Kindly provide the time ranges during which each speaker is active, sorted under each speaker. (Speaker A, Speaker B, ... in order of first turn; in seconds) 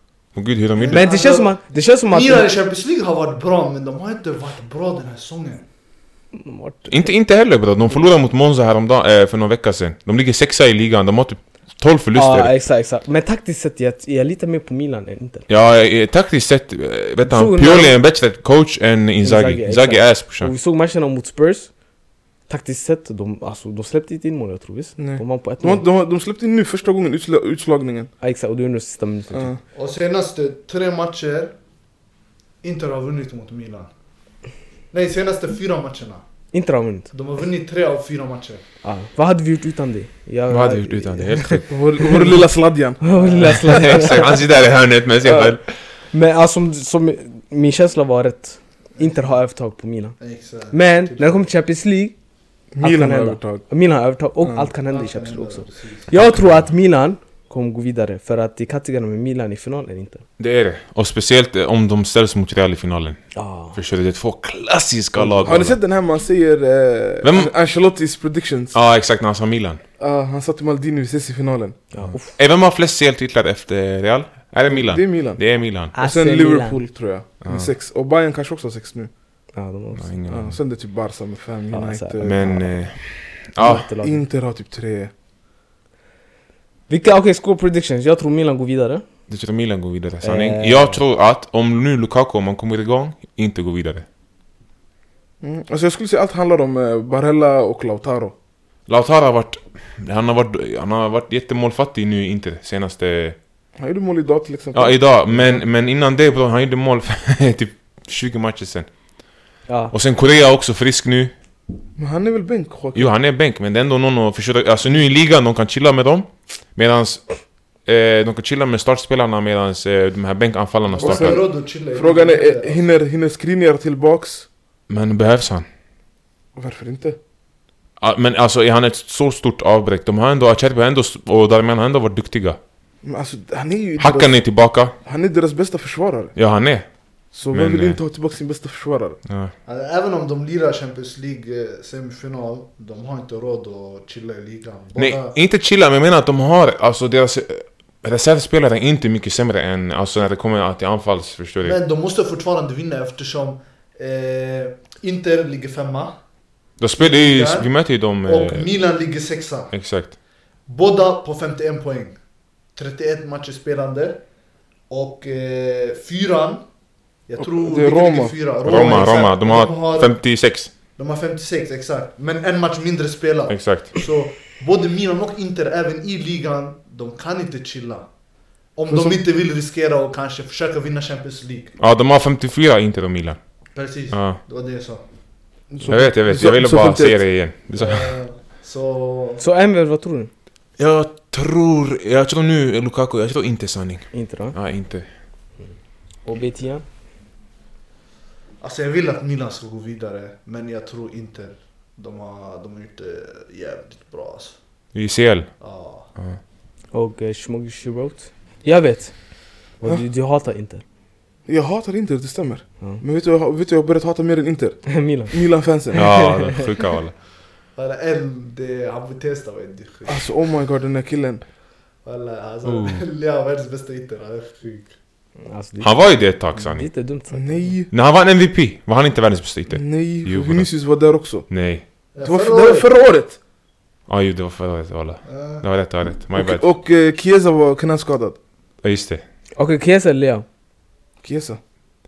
Speaker A: 0.3-1.1, 6.9-12.5, 15.5-20.5, 40.5-41.7, 43.5-45.7, 60.4-63.2, 63.7-65.8, 67.2-67.5, 68.7-69.8, 72.0-75.9, 77.4-77.7, 80.0-80.6, 82.2-83.9, 89.3-94.0, 98.9-103.4, 104.7-108.9, 109.9-111.3, 112.9-117.2, 117.8-121.4, 124.9-125.7, 128.0-132.6, 134.0-134.9, 136.3-136.8, 137.5-138.0, 139.3-139.5, 145.0-151.8, 156.8-158.7, 159.7-160.1, 168.6-170.7, 173.5-174.0, 181.8-183.4, 184.1-184.4, 185.9-188.2, 190.8-195.1, 204.9-205.5, 215.9-217.1, 222.6-223.0, 225.8-226.9, 227.9-230.7, 231.5-231.8, 234.1-236.6, 238.8-239.2
Speaker B: 0.8-1.5, 2.1-5.6, 29.7-31.5, 32.6-33.9, 34.9-36.2, 37.1-38.6, 49.0-49.3, 50.2-51.4, 54.9-56.1, 121.0-122.8, 139.7-145.3, 151.6-156.2, 157.0-157.7, 158.2-159.7, 160.7-162.2, 162.7-164.2, 164.9-166.6, 167.3-170.1, 170.9-178.1, 178.8-181.7, 183.7-185.0, 187.7-189.4, 198.6-204.6, 205.6-206.1, 217.8-220.2, 222.0-224.9, 232.1-232.9, 235.2-235.6
Speaker C: 0.9-2.5, 6.3-7.1, 12.1-15.4, 17.2-17.9, 19.2-21.7, 22.5-25.8, 28.2-29.5, 36.5-37.1, 38.8-42.3, 43.0-44.4, 46.1-50.1, 50.7-52.1, 52.8-60.2, 63.4-63.8, 71.9-72.3, 75.9-76.8, 79.5-80.0, 81.7-82.6, 83.6-84.2, 86.9-89.0, 90.2-91.0, 109.7-109.9, 189.4-190.3, 194.1-194.6, 196.2-196.8, 206.9-209.1, 209.8-210.8, 214.9-215.4, 215.9-216.6, 225.4-225.9, 226.5-227.7, 239.6-240.4
Speaker D: 25.0-28.1, 29.3-29.6, 41.7-44.0, 45.2-45.5, 52.7-53.6, 54.4-54.7, 65.2-68.7, 70.0-71.8, 74.7-75.4, 75.9-79.1, 80.3-82.6, 83.6-85.1, 95.4-98.3, 103.8-105.6, 112.0-113.1, 120.9-124.5, 126.5-127.2, 133.0-134.3, 135.0-136.3, 137.3-139.2, 167.4-168.3, 178.9-179.2, 185.7-187.2, 211.4-216.0, 220.1-221.4, 227.3-227.9, 229.7-231.5, 232.2-233.4, 236.4-238.4, 241.2-241.6